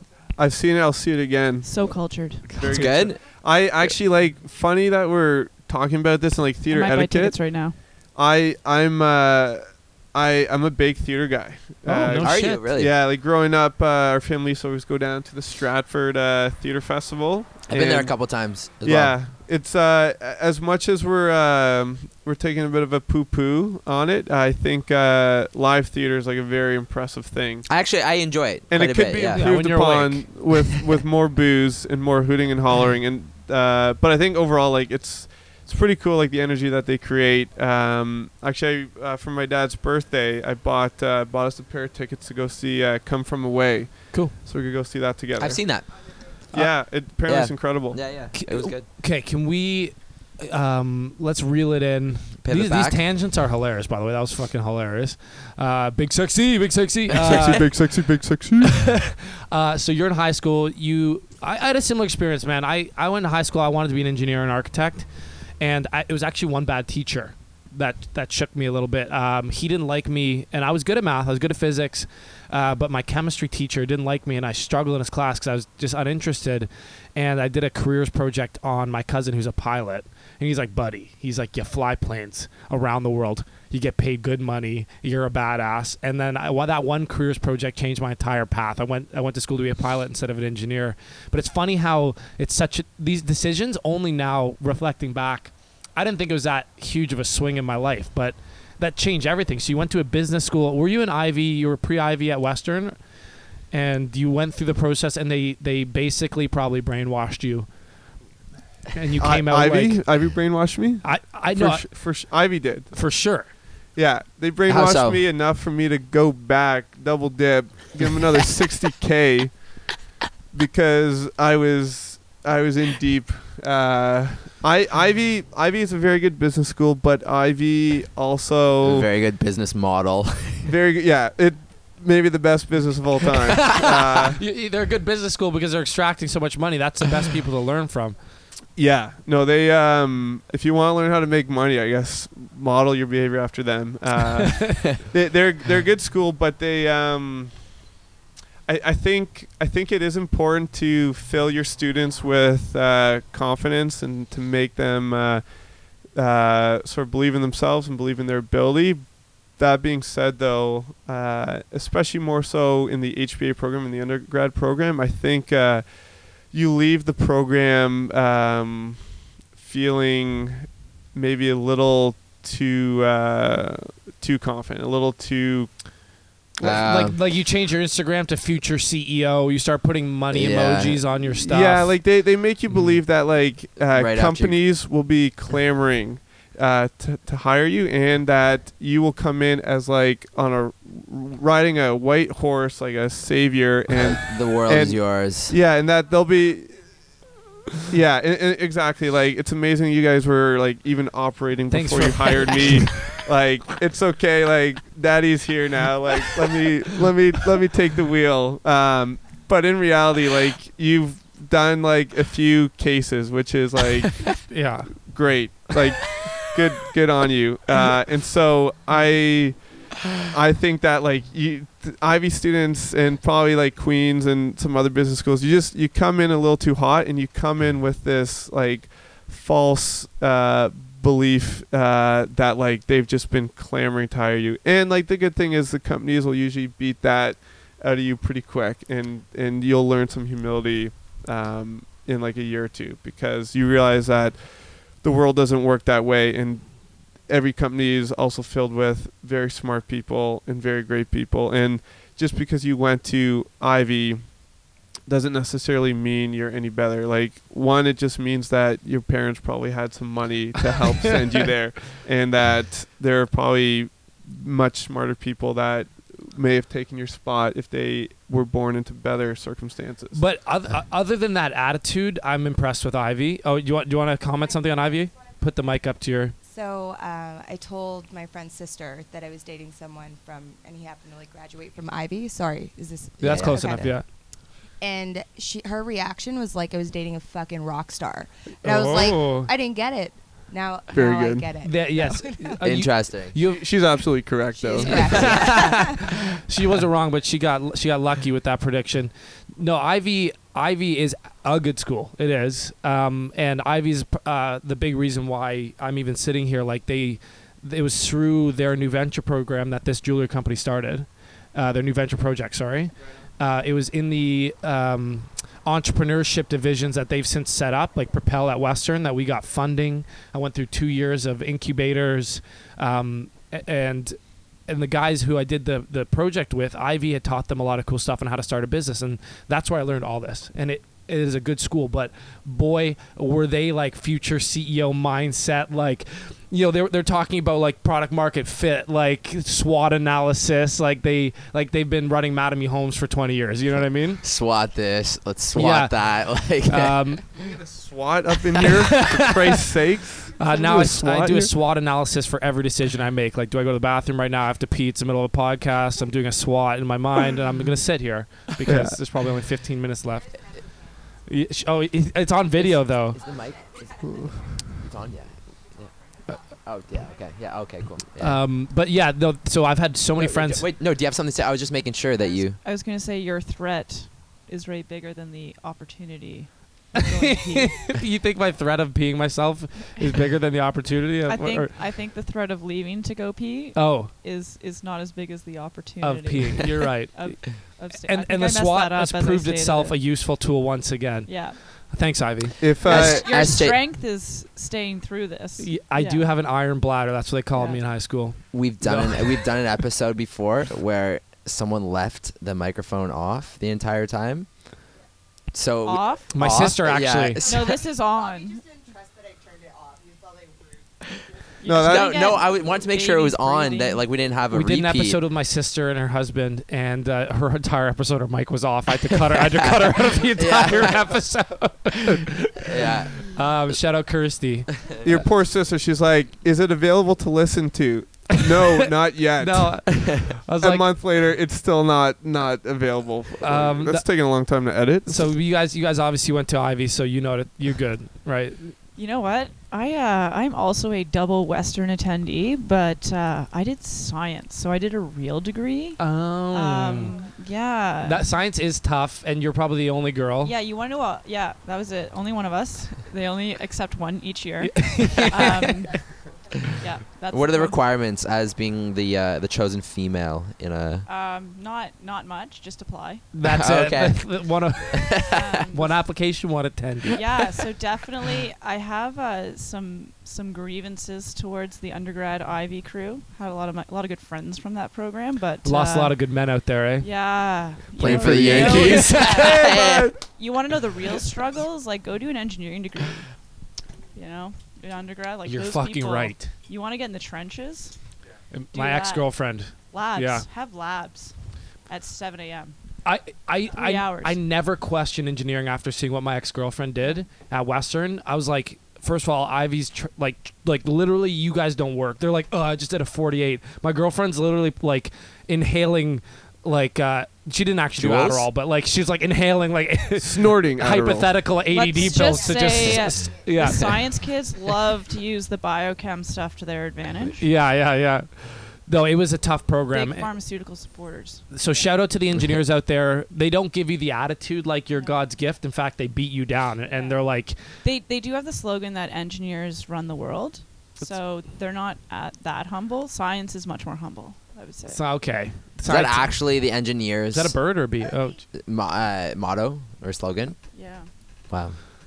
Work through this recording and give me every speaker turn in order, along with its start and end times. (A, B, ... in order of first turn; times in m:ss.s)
0:00.4-0:27.8 A
0:01.6-0:02.6 B
0:02.4-0:02.9 C
0:02.6-0:04.0 D
0:06.7-0:07.8 B
0:11.8-0:12.7 C
0:12.1-0:12.9 D
0:17.7-0:19.2 D
0:27.7-0:29.5 D
0:28.7-0:45.9 A
0:29.4-0:30.4 C
0:45.4-0:46.2 D
0:46.5-0:48.1 A
0:47.2-0:48.9 D
0:48.3-0:58.0 C
0:52.4-0:53.0 D
0:57.1-0:57.5 D
0:57.3-0:59.0 A
0:58.9-1:48.3 C
1:48.9-1:50.5 C
1:49.2-2:09.1 A
1:51.0-1:53.5 C
1:54.7-1:55.2 D
2:08.8-2:10.7 D
2:10.6-2:14.4 A
2:14.4-2:18.2 C
2:18.8-2:27.9 A
2:28.7-2:56.2 A
2:56.6-3:03.0 C
2:56.6-2:57.2 D
3:00.3-3:01.0 D
3:01.4-3:17.2 A
3:03.9-3:04.6 D
3:13.9-3:15.6 D
3:17.8-4:30.2 A
3:21.7-3:22.9 C
3:34.5-3:35.6 C
4:30.1-4:36.4 C
4:36.4-4:52.6 E
4:43.2-4:44.0 D
4:43.2-4:44.1 C
4:48.6-4:49.5 C
4:50.9-4:51.5 A
4:51.6-5:44.2 C
4:52.6-4:53.4 D
4:53.5-4:55.4 A
4:54.6-4:56.0 E
5:44.2-5:47.1 D
5:45.5-5:47.2 C
5:47.4-5:51.5 A
5:48.6-5:49.3 C
5:50.4-6:00.7 C
5:58.6-5:59.0 A
6:01.2-6:03.2 C
6:02.6-6:04.3 D
6:04.1-6:04.6 A
6:04.8-6:08.4 D
6:08.2-6:10.7 C
6:10.2-6:12.6 D
6:12.6-6:18.0 B
6:17.2-6:21.8 C
6:21.3-6:30.0 B
6:23.8-6:24.1 C
6:26.0-6:32.6 C
6:31.3-6:31.6 B
6:32.6-6:33.4 A
6:32.8-6:33.8 D
6:32.8-6:36.3 B
6:35.6-6:39.7 C
6:37.5-6:37.8 B
6:38.5-6:44.7 D
6:45.5-6:47.8 D
6:45.8-6:46.4 B
6:46.3-6:47.4 C
6:47.4-6:48.6 B
6:48.6-6:50.8 E
6:51.6-6:54.0 B
6:51.6-6:52.2 A
6:51.8-6:55.2 D
6:54.5-7:05.2 C
6:59.4-7:01.1 D
7:02.6-7:03.8 D
7:05.0-7:10.1 A
7:09.3-7:10.9 C
7:10.6-7:15.3 A
7:13.4-7:18.8 C
7:19.0-7:28.3 B
7:26.0-7:27.2 C
7:28.0-7:30.5 C
7:30.4-7:36.2 B
7:34.6-7:36.0 C
7:36.8-7:37.8 B
7:37.3-7:41.1 D
7:41.1-7:43.3 B
7:43.3-7:47.2 C
7:43.4-7:45.6 D
7:45.3-7:46.0 B
7:47.1-7:56.5 B
7:55.6-7:57.3 C
7:57.0-8:03.4 B
7:58.0-7:59.6 C
7:58.0-8:00.1 D
7:58.7-8:00.1 A
8:04.1-8:08.0 B
8:05.4-8:06.5 C
8:08.5-8:10.5 C
8:08.7-8:12.8 B
8:13.0-8:34.3 C
8:13.7-8:14.4 B
8:28.0-8:28.5 D
8:30.2-8:31.4 A
8:31.7-8:37.4 B
8:37.4-8:40.3 C
8:39.9-8:41.5 B
8:41.5-8:47.8 C
8:46.9-8:55.2 B
8:54.9-8:58.5 C
8:55.8-8:57.8 D
8:58.5-9:00.6 D
9:00.7-9:01.1 B
9:01.5-9:01.8 D